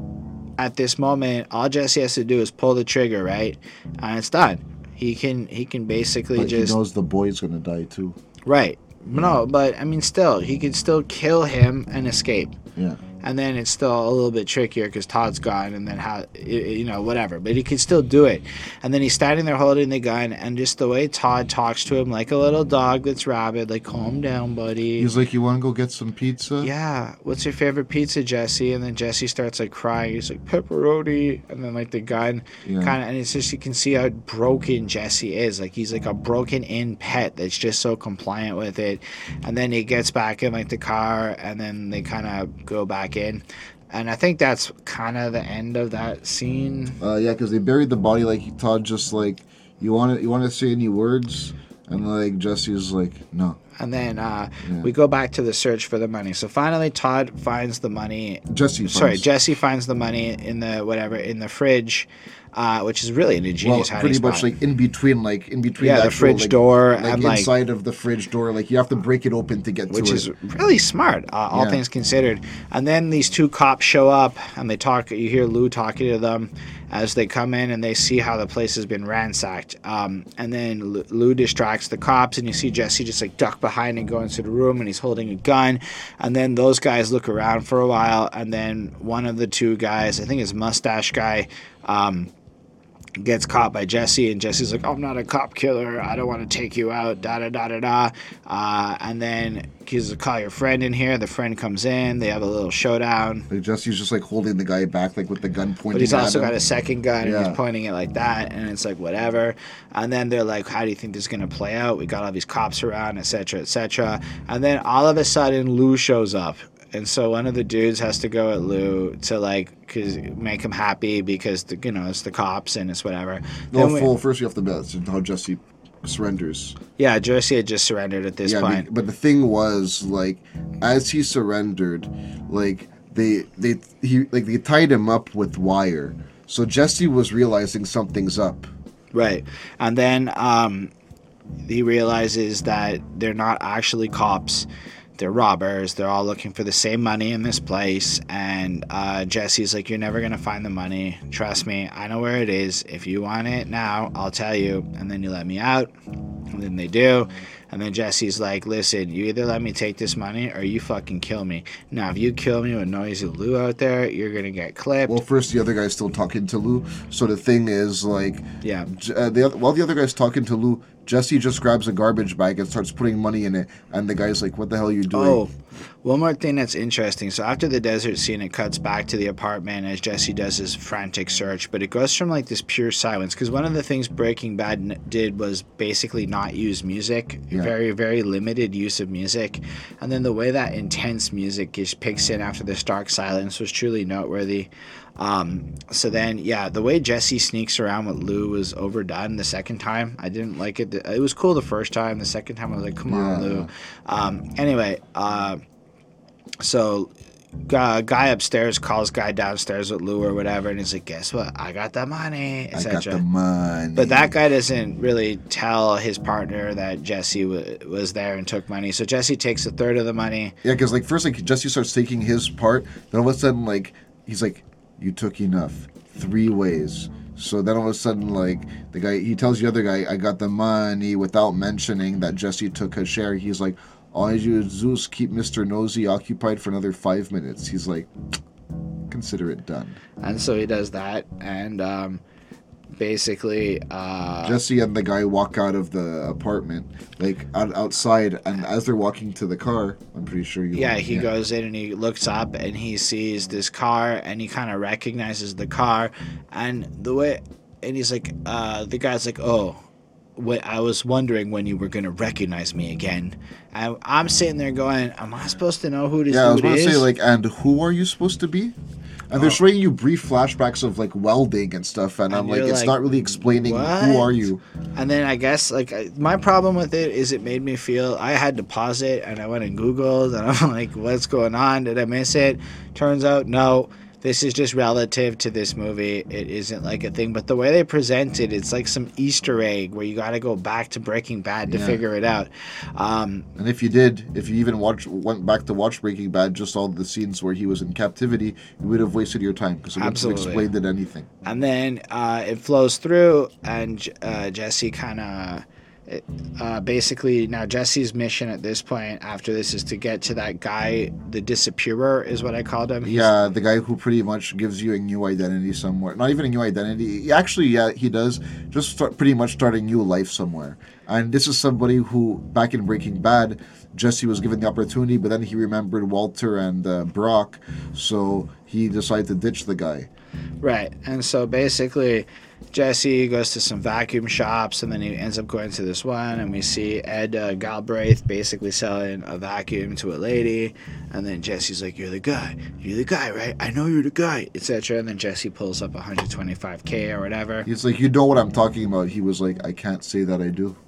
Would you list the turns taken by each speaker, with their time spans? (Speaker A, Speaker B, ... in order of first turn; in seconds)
Speaker A: 0.6-6.7, 8.4-12.6, 13.2-25.1, 26.6-47.0, 53.8-64.5, 65.8-67.5, 69.9-92.3, 93.2-103.5, 105.9-124.1, 127.0-128.9, 139.1-140.9, 141.7-155.9, 156.5-165.2, 168.6-168.9, 175.1-175.5, 176.0-205.6, 206.6-207.1, 207.7-213.2, 213.9-220.5, 240.2-242.2, 242.9-244.6, 250.7-259.8, 260.4-267.1, 269.3-269.6, 272.3-272.9, 273.6-274.4, 274.9-293.5, 300.0-300.7, 301.4-313.4, 330.6-347.7
Speaker B: 6.3-8.2, 9.1-9.4, 12.8-13.0, 25.0-26.7, 32.6-33.0, 47.0-53.6, 54.6-54.9, 58.5-59.2, 63.6-70.2, 71.5-71.8, 103.5-106.5, 107.2-107.6, 123.7-126.8, 128.4-138.7, 165.1-175.4, 203.1-203.7, 212.7-214.3, 220.6-238.1, 239.1-240.0, 244.4-251.3, 266.3-268.7, 269.3-274.6, 291.7-292.0, 293.6-301.3, 313.0-330.1, 347.6-350.8